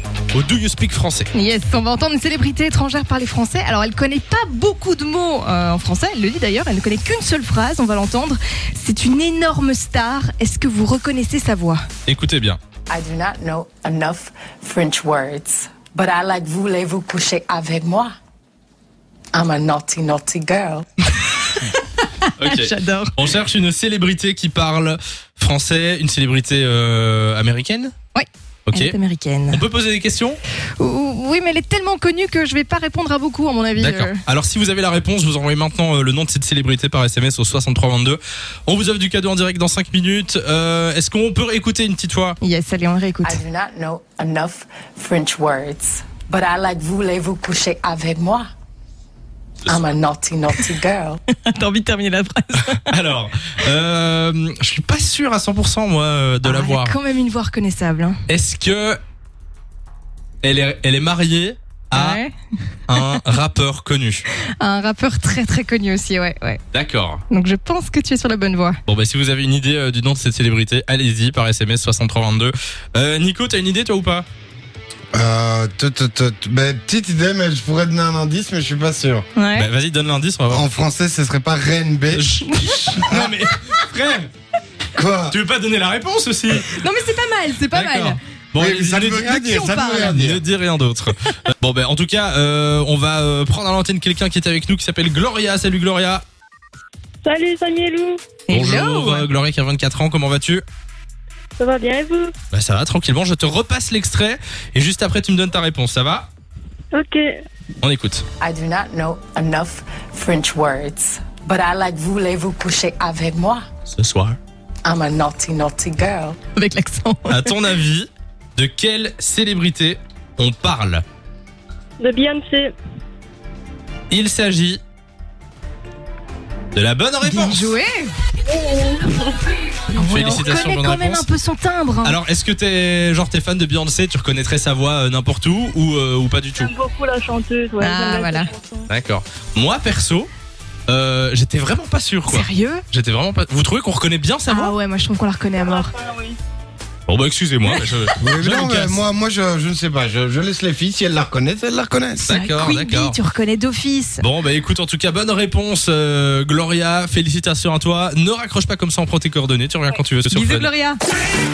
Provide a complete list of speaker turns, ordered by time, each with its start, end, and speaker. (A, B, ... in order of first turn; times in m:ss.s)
0:00.3-0:01.3 A
0:01.3-0:11.8 B
0:12.0-0:12.6 A
0:12.9-0:18.1 C
0:19.3-0:20.9 C
0:21.4-0:23.1 B
0:22.4-0:27.9 A
0:28.1-0:29.6 B
0:28.7-0:29.0 A
0:29.5-0:30.4 A
0:30.8-0:34.2 B
0:33.8-0:42.4 A
0:42.4-0:43.4 B
0:43.2-0:48.5 C
0:49.7-0:51.2 C
0:51.3-0:52.8 B
0:52.6-0:57.0 A
0:56.4-0:58.2 B
0:58.3-0:59.0 A
1:00.4-1:02.2 A
1:01.9-1:03.2 B
1:02.9-1:04.2 A
1:04.6-1:06.6 B
1:06.7-1:07.2 A
1:07.3-1:08.8 B
1:08.9-1:14.2 A
1:15.1-1:19.2 D
1:19.4-1:19.7 B
1:19.5-1:20.6 A
1:20.5-1:22.3 D
1:22.1-1:24.3 A
1:22.5-1:22.9 B
1:22.9-1:23.3 D
1:24.9-1:25.4 D
1:25.3-1:26.8 A
1:26.7-1:28.2 B
1:27.7-1:36.2 A
1:28.6-1:30.4 D
1:29.4-1:30.1 B
1:37.2-1:38.3 E
1:38.4-1:39.3 B
1:38.5-1:40.6 A
1:41.6-1:42.3 E
1:42.5-1:46.3 A
1:46.9-1:47.3 E
1:47.8-1:48.2 A
1:48.4-1:53.6 C
1:53.9-1:54.4 A
1:54.8-1:56.4 C
1:56.6-1:57.6 B
1:57.3-2:01.0 A
2:02.0-2:02.7 E
2:04.1-2:04.8 A
2:06.7-2:07.8 A
2:07.2-2:08.1 B
2:08.5-2:09.2 E
2:09.9-2:12.2 B
2:10.0-2:11.3 A
2:12.0-2:16.7 A
2:16.6-2:18.9 E
2:17.8-2:18.5 B
2:18.9-2:20.3 A
2:20.9-2:24.7 A
2:22.3-2:22.8 B
2:24.5-2:25.9 B
2:25.9-2:26.4 E
2:27.1-2:29.0 A
2:27.6-2:28.0 B
2:28.2-2:32.3 D
2:32.2-2:33.2 A
2:32.3-2:34.2 B
2:34.2-2:40.7 A
2:40.3-2:41.0 B